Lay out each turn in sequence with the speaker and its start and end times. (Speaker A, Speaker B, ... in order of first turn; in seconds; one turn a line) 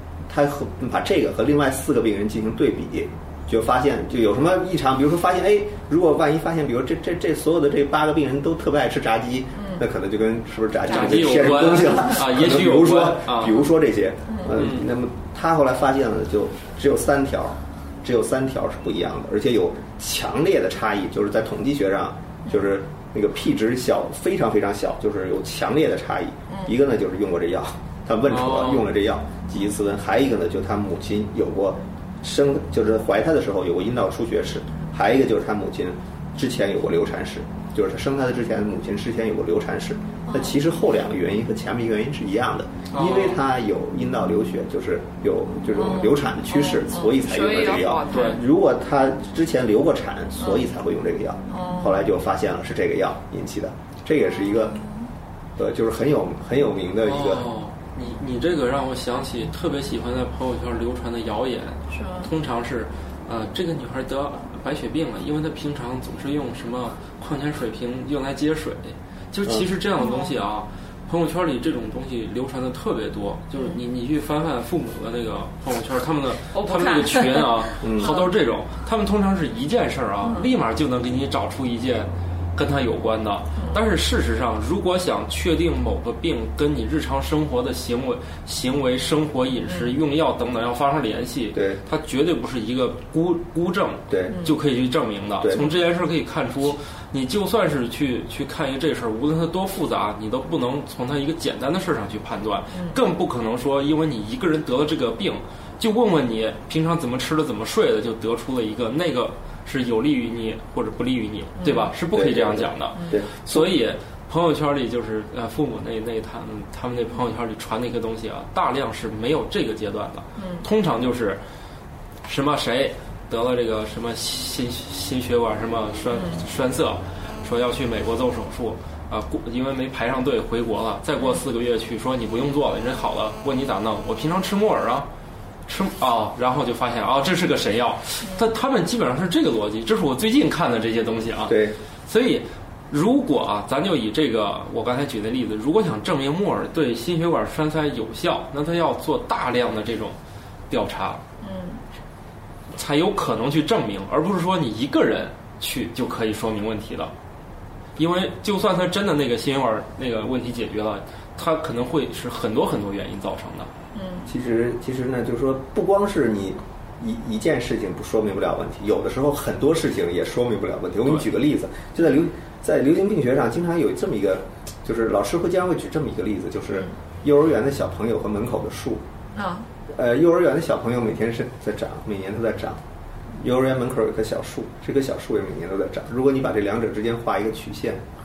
Speaker A: 0.2-54.8
Speaker B: 9.6-9.8
Speaker C: 10.9-13.7
Speaker B: 14.3-14.5
Speaker C: 14.5-14.9
Speaker B: 26.5-26.7
Speaker C: 28.3-28.9
Speaker B: 40.3-40.5
Speaker C: 42.9-43.4
Speaker B: 45.8-48.4
Speaker C: 48.1-48.4
Speaker B: 50.4-50.6
Speaker B: 51.5-51.9
Speaker B: 54.3-55.1
Speaker A: 55.5-57.5
Speaker C: 57.0-121.4
Speaker B: 61.9-62.3
Speaker B: 70.0-70.3
Speaker B: 76.5-78.3
Speaker A: 77.8-78.2
Speaker B: 80.2-80.5
Speaker A: 91.5-91.8
Speaker A: 94.1-94.4
Speaker B: 94.3-94.5
Speaker A: 95.4-95.7
Speaker B: 111.6-111.9
Speaker A: 112.1-113.7
Speaker B: 120.4-120.7
Speaker C: 122.2-135.1
Speaker B: 126.1-126.4
Speaker C: 135.7-150.2
Speaker A: 141.5-141.8
Speaker C: 150.7-151.2
Speaker B: 151.4-151.8
Speaker C: 152.7-157.1
Speaker C: 157.9-163.7
Speaker B: 163.9-164.3
Speaker A: 164.2-179.0
Speaker B: 179.3-179.7
Speaker A: 179.9-182.8
Speaker A: 183.4-188.0